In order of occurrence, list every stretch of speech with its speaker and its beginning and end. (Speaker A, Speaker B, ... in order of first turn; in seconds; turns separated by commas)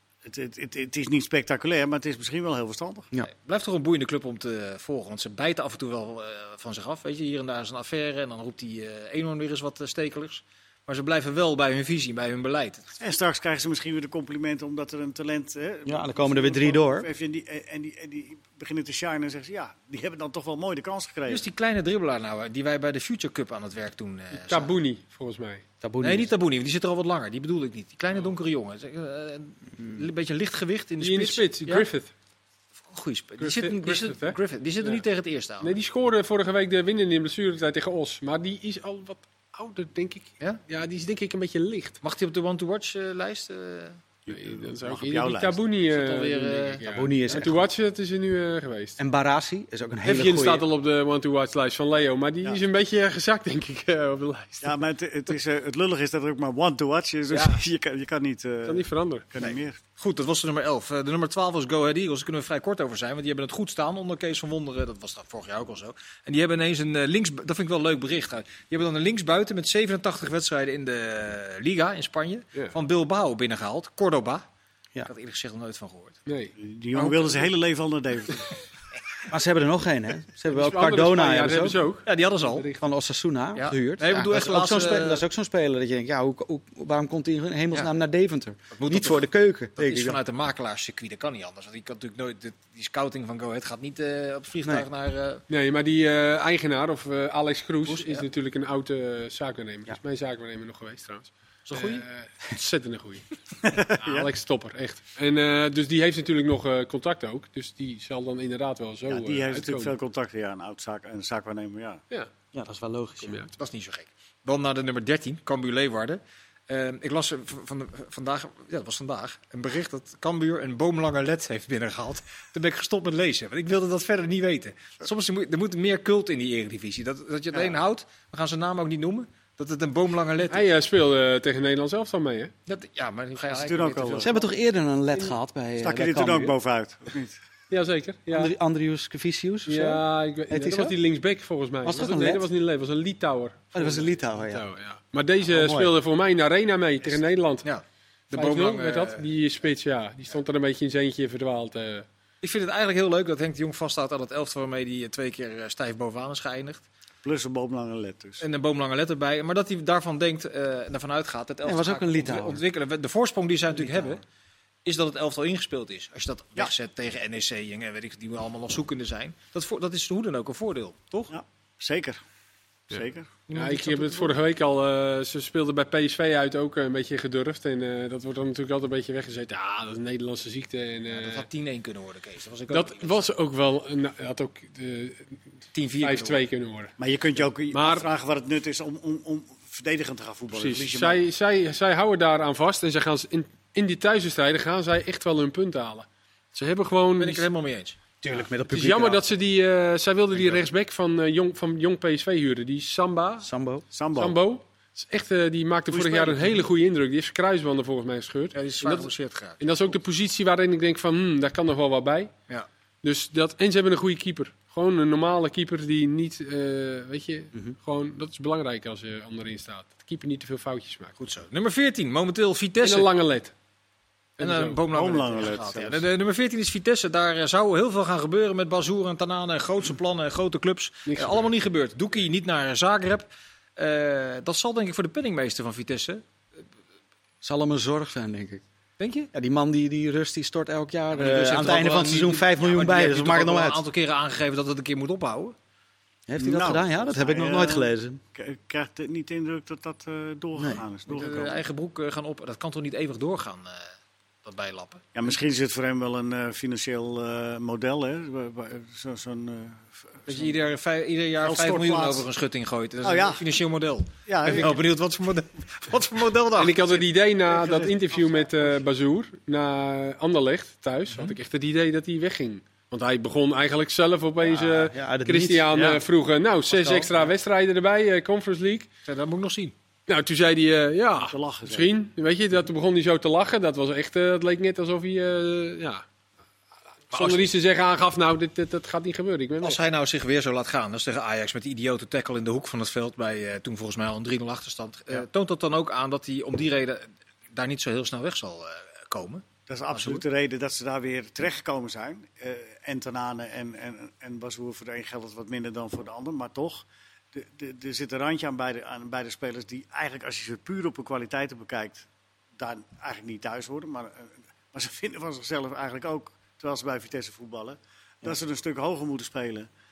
Speaker A: 0.2-3.1, Speaker B: 3.2-12.9, Speaker A: 13.0-21.4, Speaker C: 15.8-17.1, Speaker B: 21.3-24.7, Speaker D: 24.4-25.6, Speaker C: 25.8-26.3, Speaker B: 26.0-31.9, Speaker D: 31.0-32.1, Speaker B: 32.9-35.8, Speaker D: 33.4-35.0, Speaker D: 35.6-42.0, Speaker B: 42.0-44.0, Speaker A: 44.3-45.6, Speaker D: 44.3-49.0, Speaker B: 45.9-46.8, Speaker C: 46.9-47.6, Speaker C: 49.0-50.6, Speaker D: 50.0-54.8, Speaker A: 54.6-59.8, Speaker D: 57.3-57.6, Speaker D: 58.6-59.3, Speaker B: 59.4-74.4, Speaker B: 75.0-76.2, Speaker D: 76.2-76.5, Speaker A: 76.6-78.5, Speaker B: 77.0-77.5, Speaker C: 79.3-81.8, Speaker D: 80.5-82.8, Speaker B: 82.0-82.7, Speaker C: 82.8-90.2, Speaker B: 83.5-85.2, Speaker B: 88.7-95.4, Speaker D: 95.5-103.2, Speaker B: 97.9-98.2, Speaker B: 101.7-102.0, Speaker A: 103.6-104.3, Speaker D: 103.9-109.9, Speaker A: 109.1-112.0, Speaker C: 112.5-113.4, Speaker D: 113.2-113.5, Speaker B: 113.6-130.7, Speaker D: 130.5-132.5, Speaker B: 132.7-134.3, Speaker A: 133.5-134.3, Speaker C: 134.2-136.6, Speaker A: 135.8-137.3, Speaker D: 137.7-138.5, Speaker C: 138.3-141.0, Speaker D: 139.7-147.7, Speaker C: 141.8-142.5, Speaker C: 143.7-144.6, Speaker C: 145.5-145.9, Speaker B: 147.6-149.3, Speaker D: 148.3-152.1, Speaker B: 152.4-156.8, Speaker A: 157.2-158.4, Speaker B: 158.4-164.2, Speaker C: 161.6-162.6, Speaker B: 164.8-171.3, Speaker A: 171.3-172.2, Speaker A: 172.9-173.3, Speaker B: 173.5-174.4, Speaker D: 173.5-181.4, Speaker B: 181.1-183.2, Speaker D: 182.7-185.4, Speaker B: 185.7-186.4, Speaker D: 186.0-187.0, Speaker A: 187.0-191.2, Speaker D: 187.7-188.1, Speaker D: 190.5-197.4, Speaker B: 197.2-198.0, Speaker C: 198.2-199.2, Speaker D: 198.7-203.5, Speaker C: 203.4-203.8, Speaker A: 203.9-204.4, Speaker D: 204.2-212.3, Speaker A: 205.9-206.6, Speaker B: 208.5-210.0, Speaker D: 213.0-221.1, Speaker B: 221.2-223.1, Speaker D: 222.8-223.5, Speaker D: 224.4-224.8, Speaker B: 224.4-236.2, Speaker A: 224.9-226.0, Speaker D: 231.1-231.4, Speaker C: 237.4-238.6, Speaker B: 239.0-239.3, Speaker C: 239.3-243.8, Speaker B: 241.1-245.5, Speaker C: 246.3-248.2, Speaker A: 246.4-251.6, Speaker C: 250.5-250.8, Speaker B: 251.1-253.9, Speaker B: 254.4-255.1, Speaker A: 255.1-260.5, Speaker B: 260.3-267.0, Speaker A: 261.4-262.2, Speaker A: 263.0-263.4, Speaker A: 264.2-264.8, Speaker D: 266.6-278.9, Speaker A: 267.4-268.8, Speaker B: 271.1-271.4, Speaker C: 274.4-276.0, Speaker C: 276.7-277.3, Speaker B: 279.1-279.7, Speaker D: 280.1-286.0, Speaker A: 281.2-281.9, Speaker D: 287.1-289.8, Speaker B: 287.1-287.5, Speaker B: 289.6-300.2, Speaker A: 299.7-312.1, Speaker A: 312.6-319.7